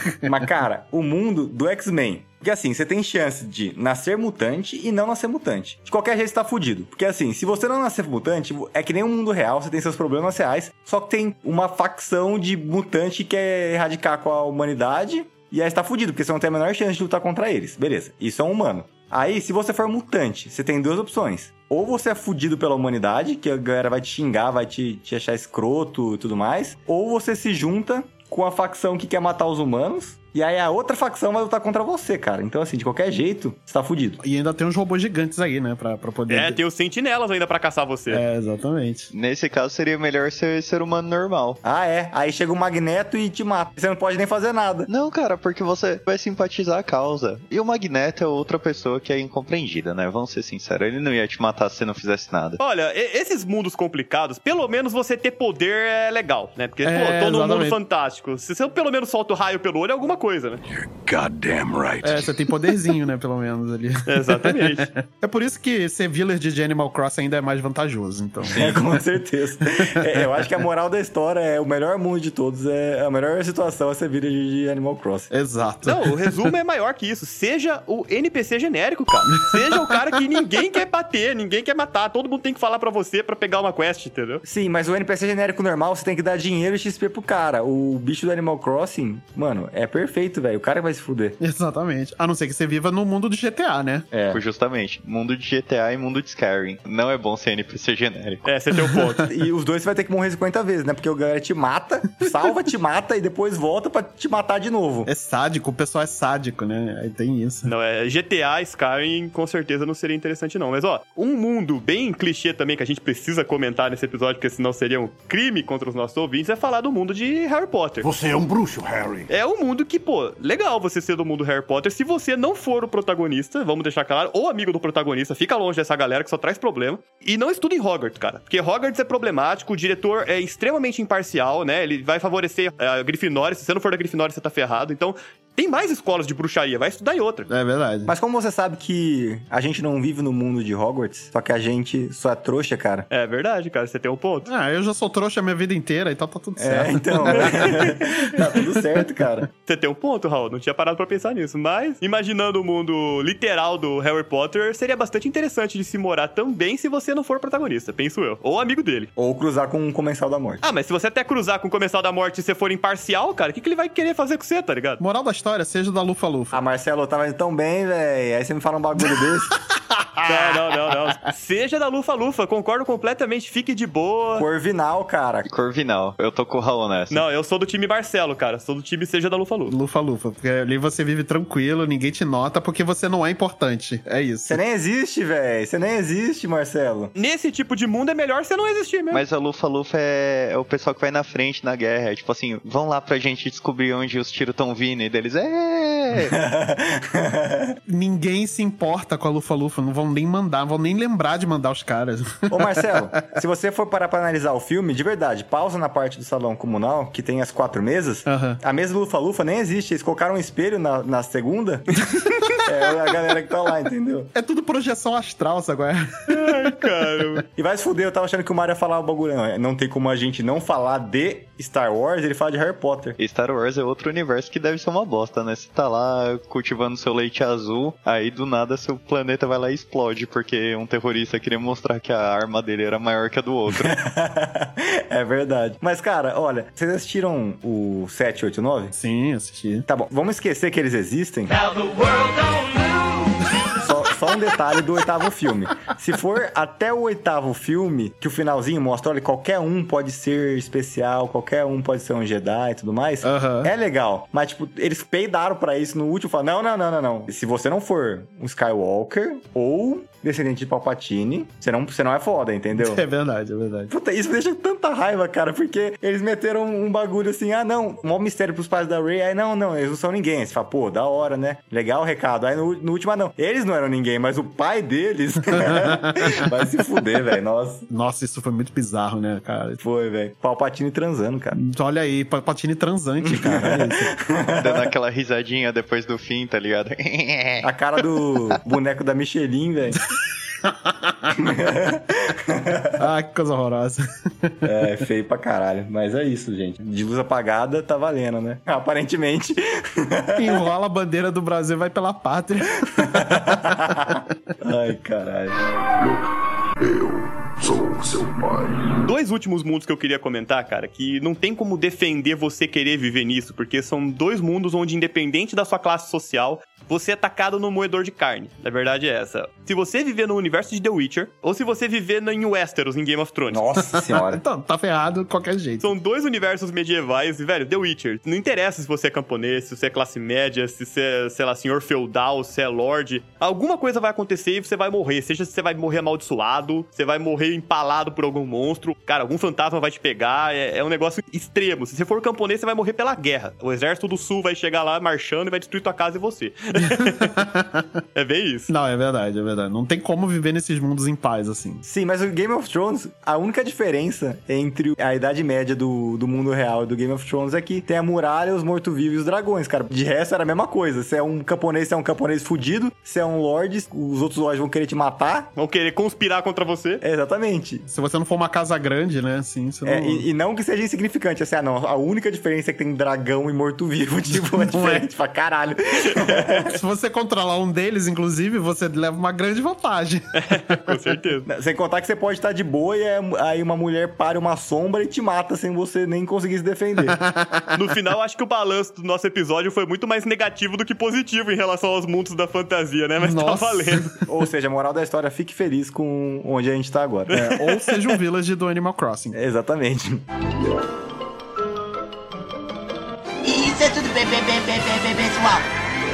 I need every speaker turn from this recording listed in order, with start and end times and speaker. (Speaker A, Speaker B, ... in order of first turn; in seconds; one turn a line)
Speaker A: 0.2-34.2
Speaker B: 34.2-36.6
Speaker C: 36.3-38.2
Speaker B: 38.1-39.1
Speaker D: 39.1-41.6
Speaker A: 41.6-44.9
Speaker D: 44.9-52.6
Speaker C: 52.6-60.6
Speaker B: 56.8-57.8
Speaker E: 60.7-62.5
Speaker B: 62.0-68.8
Speaker C: 64.1-64.9
Speaker A: 68.5-75.3
Speaker B: 69.8-70.1
Speaker B: 75.3-76.5
Speaker C: 75.8-84.4
Speaker B: 79.5-80.0
Speaker A: 84.4-91.4
Speaker B: 91.4-94.1
Speaker A: 94.1-94.4
Speaker D: 94.3-98.4
Speaker C: 98.4-99.3
Speaker B: 98.8-99.1
Speaker A: 99.3-105.1
Speaker B: 105.1-107.7
Speaker C: 107.7-118.1
Speaker E: 118.0-119.3
Speaker C: 119.3-137.5
Speaker B: 137.5-138.1
Speaker A: 138.1-143.1
Speaker C: 143.1-144.5
Speaker B: 144.4-147.9
Speaker A: 146.6-149.5
Speaker C: 149.6-159.1
Speaker A: 159.2-160.6
Speaker C: 160.6-165.0
Speaker B: 165.0-166.6
Speaker A: 166.5-169.6
Speaker B: 170.0-170.5
Speaker C: 170.2-174.5
Speaker A: 174.3-175.5
Speaker D: 175.5-177.2
Speaker C: 177.1-179.7
Speaker B: 179.7-184.6
Speaker A: 184.4-187.1
Speaker C: 187.2-189.2
Speaker D: 189.1-196.3
Speaker A: 196.2-197.8
Speaker B: 197.9-203.2
Speaker A: 202.5-212.0
Speaker B: 208.3-208.6
Speaker A: 212.6-214.3
Speaker B: 214.3-217.4
Speaker C: 216.3-217.4
Speaker A: 217.6-223.2
Speaker D: 223.2-233.9
Speaker A: 233.7-238.9
Speaker B: 238.9-239.8
Speaker A: 239.9-241.6
Speaker A: 243.7-263.0
Speaker B: 253.2-253.7
Speaker B: 262.7-263.9
Speaker A: 263.9-277.9
Speaker B: 275.5-276.4
Speaker B: 277.9-279.8
Speaker A: 279.8-281.6
Speaker B: 281.5-284.1
Speaker A: 283.2-284.9
Speaker D: 284.6-287.7
Speaker A: 287.6-290.0
Speaker B: 290.6-291.1
Speaker A: 291.3-293.1
Speaker B: 293.0-294.7
Speaker A: 294.6-300.6
Speaker B: 300.4-304.1
Speaker A: 303.0-305.5
Speaker E: 306.8-309.0
Speaker C: 309.0-323.7
Speaker A: 323.5-324.4
Speaker B: 323.9-325.9
Speaker C: 325.8-347.3
Speaker B: 346.8-347.9
Speaker C: 348.1-348.7
Speaker B: 348.7-351.8
Speaker A: 351.8-365.5
Speaker C: 365.6-367.0
Speaker A: 367.0-367.8
Speaker B: 367.9-370.2
Speaker A: 369.8-376.8
Speaker B: 374.7-375.1
Speaker B: 376.5-380.9
Speaker C: 380.4-381.5
Speaker A: 381.5-387.2
Speaker B: 387.1-387.8
Speaker C: 387.7-394.2
Speaker B: 393.2-394.1
Speaker A: 394.3-397.4
Speaker B: 397.3-399.4
Speaker C: 397.3-398.2
Speaker A: 399.3-400.2
Speaker F: 403.4-405.6